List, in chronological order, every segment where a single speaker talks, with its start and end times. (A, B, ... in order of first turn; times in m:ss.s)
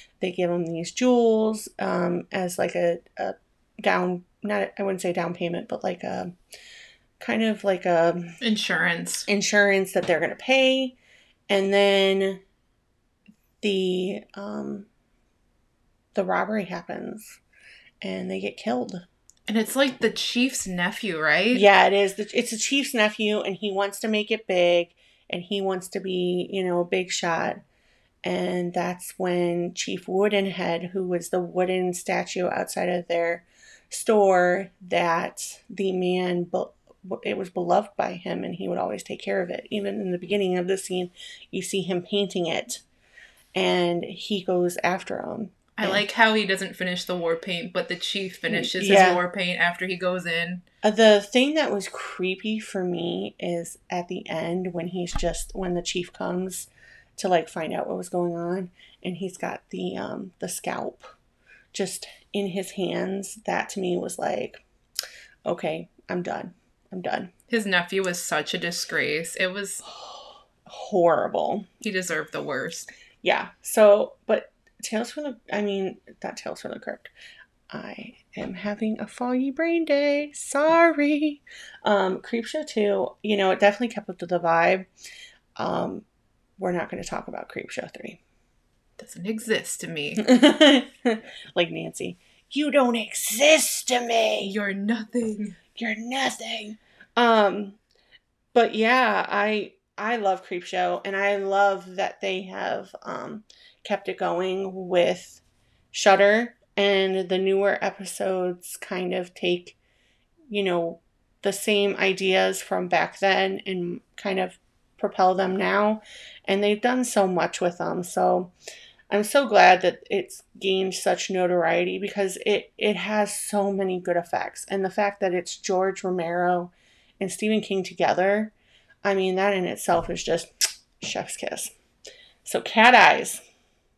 0:00.2-0:06.3 A
0:07.2-0:08.4 A
0:08.4-0:09.3 B
0:09.3-0:11.0 A
0:11.5-0:12.4 A
0:13.6-0:14.9 A
0:16.1-0:17.4 A
0:18.0-0:19.0 A
0:19.5-0:21.6 B
0:21.5-0:27.6 A
0:28.2-0:42.8 A
0:43.6-0:46.0 A
0:45.8-0:50.6 B
0:48.5-0:49.2 A
0:50.8-1:01.1 A
1:01.7-1:04.6 A
1:05.4-1:07.3 A
1:07.5-1:09.8 B
1:10.6-1:11.7 A
1:11.8-1:12.9 B
1:13.2-1:17.1 A
1:17.7-1:24.9 A
1:25.6-1:26.0 A
1:26.6-1:28.2 A
1:29.0-1:30.2 B
1:30.2-1:34.5 A
1:34.4-1:35.6 B
1:35.8-1:37.8 A
1:38.5-1:49.8 A
1:50.5-1:58.5 A
1:59.1-2:08.5 A
2:09.0-2:11.7 A
2:12.4-2:13.4 A